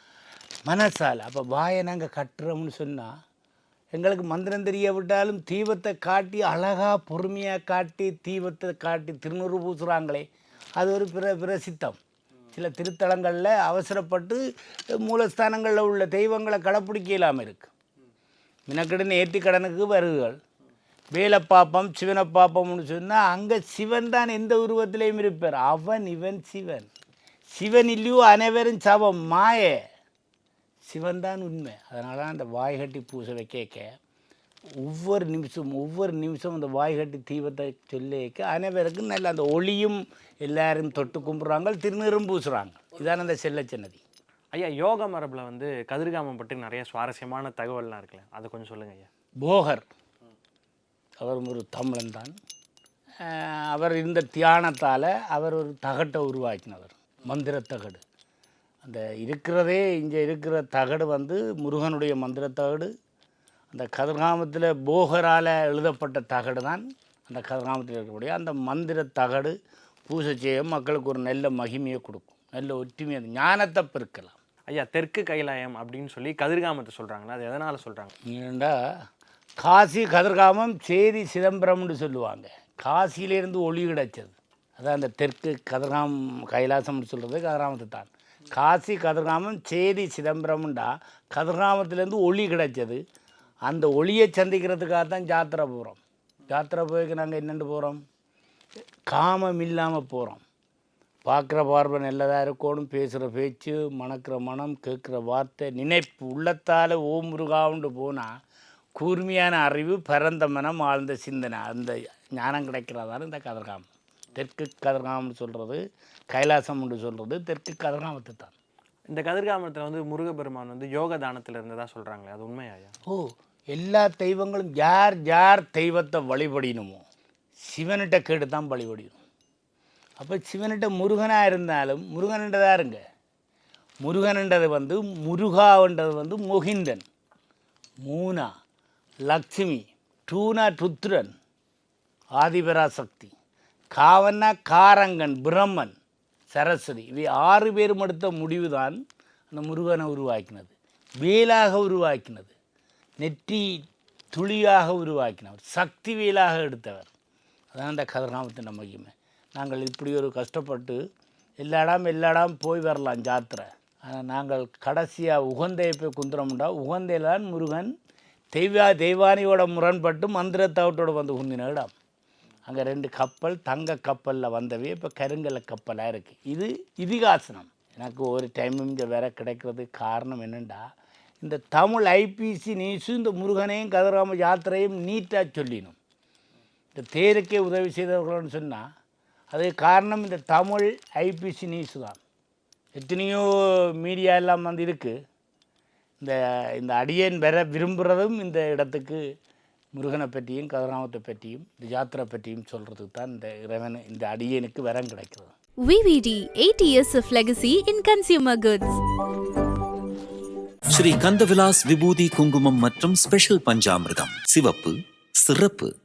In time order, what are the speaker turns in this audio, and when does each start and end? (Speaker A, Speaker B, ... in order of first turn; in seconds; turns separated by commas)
Speaker A: 0.7-3.1, Speaker A: 3.9-10.2, Speaker A: 10.8-12.0, Speaker A: 12.5-17.7, Speaker A: 18.7-20.4, Speaker A: 21.1-26.9, Speaker A: 27.5-29.8, Speaker A: 30.9-33.9, Speaker A: 34.8-44.0, Speaker B: 44.5-49.1, Speaker A: 49.4-49.9, Speaker A: 51.2-52.3, Speaker A: 53.2-58.0, Speaker A: 58.8-62.9, Speaker A: 63.7-69.5, Speaker A: 70.1-74.3, Speaker B: 74.7-78.1, Speaker A: 78.3-78.8, Speaker A: 79.6-93.0, Speaker A: 93.7-98.0, Speaker A: 99.1-100.4, Speaker A: 101.3-108.3, Speaker A: 109.0-118.5, Speaker B: 119.1-122.9, Speaker A: 123.1-127.0, Speaker A: 127.6-129.2, Speaker A: 130.2-133.0, Speaker A: 134.0-137.0, Speaker A: 138.0-138.5, Speaker A: 139.3-141.3, Speaker A: 142.4-143.3, Speaker A: 143.9-145.9, Speaker A: 146.5-149.0, Speaker A: 149.5-152.5, Speaker A: 153.2-157.1, Speaker A: 157.7-161.0, Speaker A: 161.6-167.9, Speaker A: 168.5-171.9, Speaker A: 172.7-180.9, Speaker A: 181.4-186.0, Speaker A: 186.9-188.8, Speaker A: 189.5-192.2, Speaker A: 192.9-195.2, Speaker A: 196.2-199.2, Speaker A: 199.9-205.5, Speaker C: 205.9-209.0, Speaker D: 210.9-215.9